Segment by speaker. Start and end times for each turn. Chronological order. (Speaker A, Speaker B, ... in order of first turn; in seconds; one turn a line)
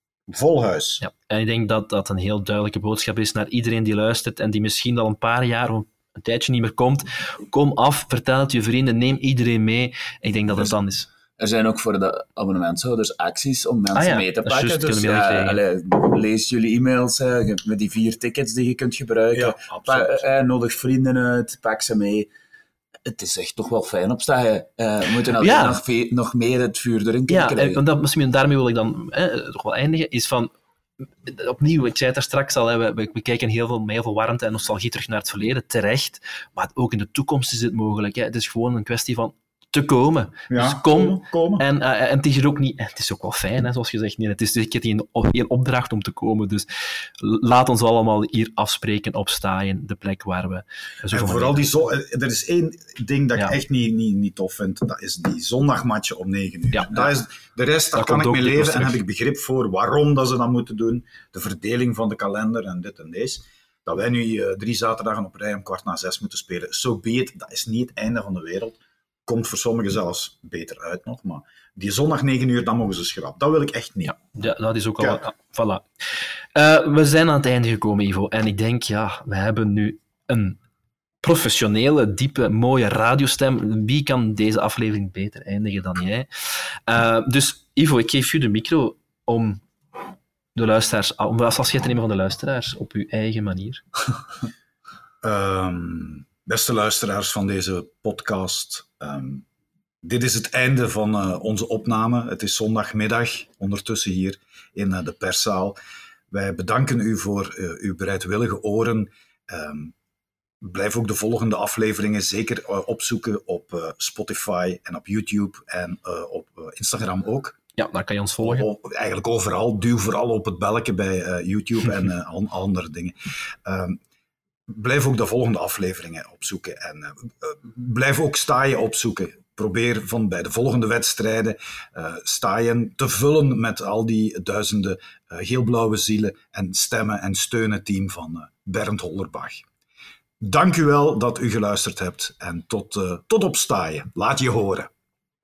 Speaker A: 0.3-1.0
Speaker B: 1.0-11.1
Speaker C: 11.4-22.3
Speaker B: 13.9-15.6
Speaker A: 19.3-20.2
Speaker C: 23.1-27.8
Speaker B: 25.4-25.8
Speaker B: 27.3-30.5
Speaker B: 31.2-46.7
Speaker A: 40.5-41.6
Speaker B: 47.2-51.7
Speaker A: 51.1-74.2
Speaker B: 56.7-57.0
Speaker B: 57.9-59.0
Speaker B: 74.1-80.6
Speaker B: 81.2-89.6
Speaker B: 90.5-93.8
Speaker A: 95.2-99.4
Speaker A: 100.0-105.8
Speaker A: 106.3-109.9
Speaker A: 110.6-117.6
Speaker B: 117.8-118.7
Speaker A: 118.4-124.0
Speaker A: 124.7-139.6
Speaker A: 140.4-144.9